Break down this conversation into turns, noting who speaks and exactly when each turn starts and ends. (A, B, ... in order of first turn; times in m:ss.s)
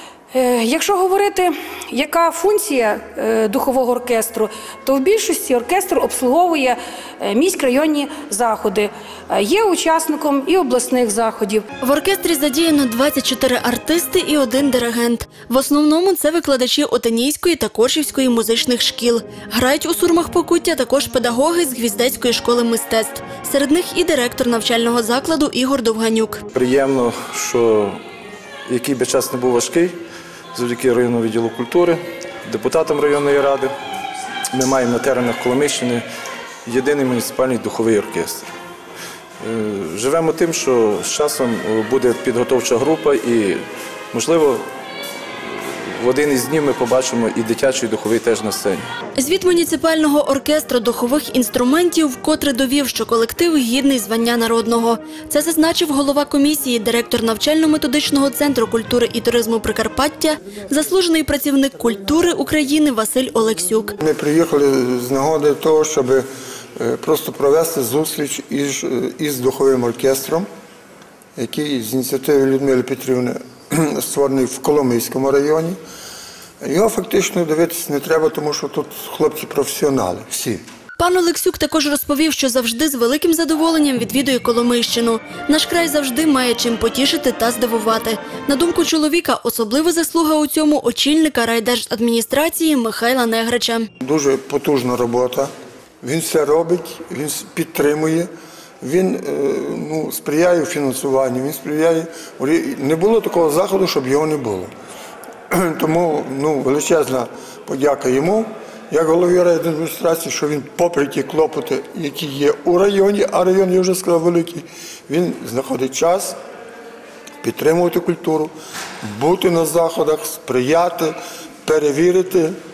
0:00.3-0:11.6 A
0:11.8-0:26.4 B
0:26.5-0:28.0 C
0:28.7-0:30.0 C
0:30.5-0:33.7 C
0:34.5-0:36.0 C
0:36.6-0:38.5 C
0:39.4-0:44.6 C
0:45.5-0:48.9 C
0:49.2-1:04.0 B
1:04.0-1:06.2 D
1:06.8-1:10.5 D
1:11.4-1:15.8 D
1:16.6-1:20.6 D
1:21.0-1:33.9 B
1:34.0-1:35.5 D
1:36.0-1:38.3 D
1:38.8-1:44.7 D
1:45.5-1:56.4 D
1:57.4-2:02.5 D